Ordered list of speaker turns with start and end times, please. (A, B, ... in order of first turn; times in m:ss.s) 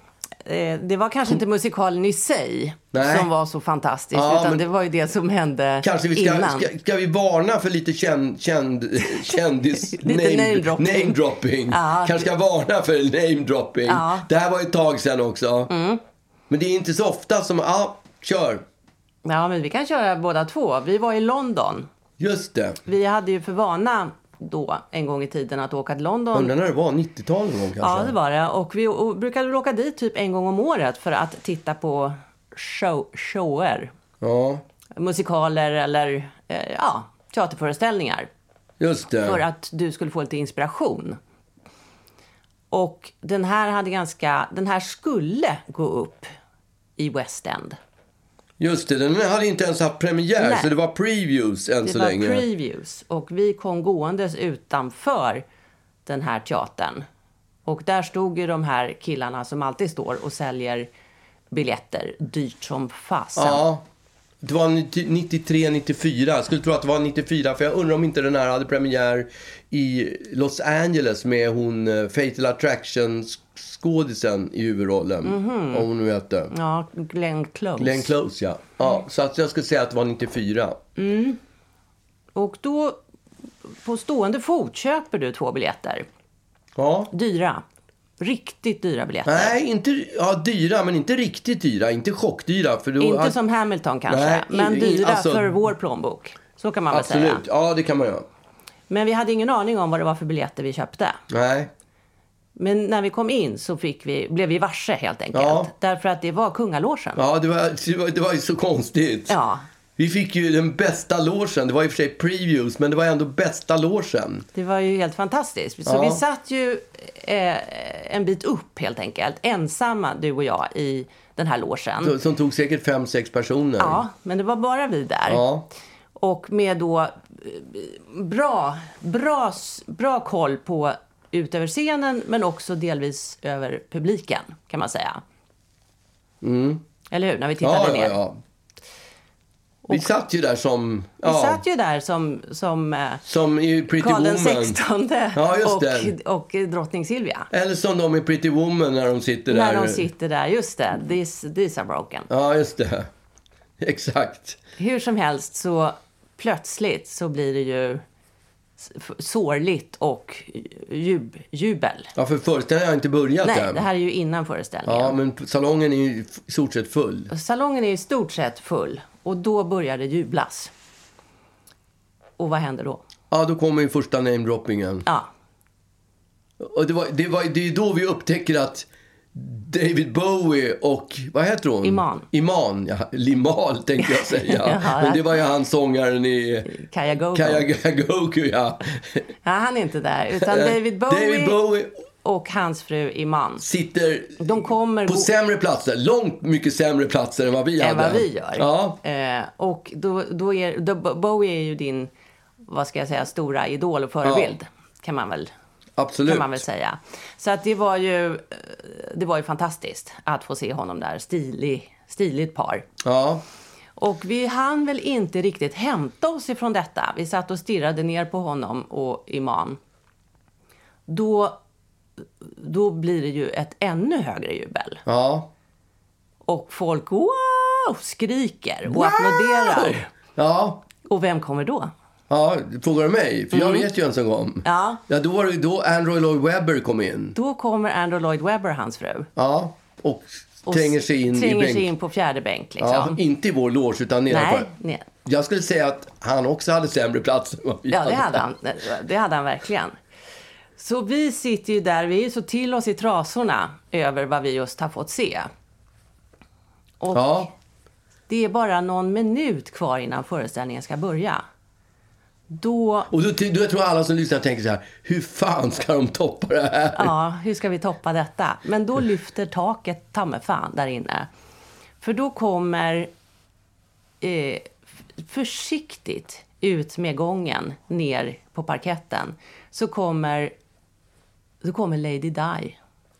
0:00.4-0:06.7 A
0:02.9-0:03.3 B
0:04.1-0:04.6 B
0:05.8-0:15.7 B
0:10.0-0:11.2 A
0:11.7-0:12.3 A
0:13.9-0:14.2 A
0:15.7-0:16.0 A
0:16.5-0:18.6 B
0:19.2-0:21.9 A
0:22.2-0:22.8 B
0:22.8-0:26.5 A
0:26.3-0:28.1 B
0:27.8-0:33.9 A
0:34.2-0:34.6 B
0:35.0-0:38.3 A
0:38.8-0:39.4 B
0:39.2-0:41.2 A
0:42.7-0:46.3 A
0:47.0-0:47.8 A
0:48.6-0:52.5 B
0:50.4-0:50.7 A
0:51.8-0:55.4 A
0:56.0-0:57.0 A
0:57.6-1:00.9 A
1:01.5-1:03.6 A
1:03.4-1:03.8 B
1:04.4-1:16.5 B
1:15.2-1:15.8 A
1:16.5-1:18.1 A
1:17.8-1:20.8 B
1:21.0-1:21.4 A
1:22.3-1:23.0 A
1:23.8-1:26.0 A
1:26.8-1:27.1 B
1:27.1-1:27.6 A
1:28.2-1:29.5 A
1:29.2-1:33.4 B
1:33.0-1:37.4 A
1:34.1-1:35.6 B
1:36.9-1:38.2 B
1:38.9-1:41.2 A
1:41.3-1:41.7 B
1:42.6-1:47.2 A
1:45.3-1:45.7 B
1:47.2-1:49.4 B
1:49.3-1:49.6 A
1:50.0-1:54.5 B
1:54.5-2:02.1 A
1:55.8-1:56.2 B
2:02.0-2:04.0 B
2:03.8-2:05.4 A
2:05.3-2:05.7 B
2:06.2-2:15.2 A
2:16.4-2:16.8 B
2:17.1-2:18.1 A
2:17.6-2:18.4 B
2:19.9-2:21.6 B
2:21.2-2:23.2 A
2:23.2-2:24.8 B
2:24.0-2:27.5 A
2:25.3-2:26.1 B
2:27.5-2:30.1 B
2:29.5-2:32.3 A
2:32.3-2:33.1 B
2:33.8-2:34.6 B
2:34.8-2:38.0 A
2:38.8-2:42.1 A
2:42.2-2:43.8 B
2:43.4-2:45.1 A
2:44.8-2:47.3 B
2:47.3-2:50.7 A
2:52.4-2:53.0 A
2:53.3-2:55.1 B
2:56.6-3:06.8 B
3:01.8-3:02.3 A
3:04.0-3:05.3 A
3:06.7-3:07.6 A
3:07.3-3:09.3 B
3:09.4-3:11.6 A
3:10.4-3:11.9 B
3:12.2-3:13.6 A
3:13.6-3:19.0 B
3:14.4-3:15.3 A
3:17.8-3:22.1 A
3:22.7-3:25.5 A
3:24.2-3:24.6 B
3:26.0-3:26.6 B
3:26.3-3:32.8 A
3:33.0-3:33.4 B
3:34.0-3:39.8 A
3:41.1-3:41.6 A
3:42.4-3:45.0 A
3:45.0-3:45.5 B
3:46.4-3:50.0 A
3:48.9-3:50.9 B
3:51.0-3:51.9 A
3:52.3-3:57.4 B
3:53.5-3:53.8 A
3:54.6-3:55.0 A
3:57.3-3:59.3 A
3:59.4-4:01.9 B
4:00.7-4:03.2 A
4:02.8-4:04.7 B
4:04.3-4:05.1 A
4:05.2-4:08.4 B
4:07.9-4:09.9 A
4:10.8-4:15.5 A
4:17.0-4:17.5 A
4:17.1-4:17.5 B
4:18.3-4:21.4 A
4:22.5-4:23.1 A
4:23.1-4:27.1 B
4:27.0-4:31.3 A
4:32.0-4:33.1 A
4:34.2-4:40.5 A
4:41.6-4:42.8 A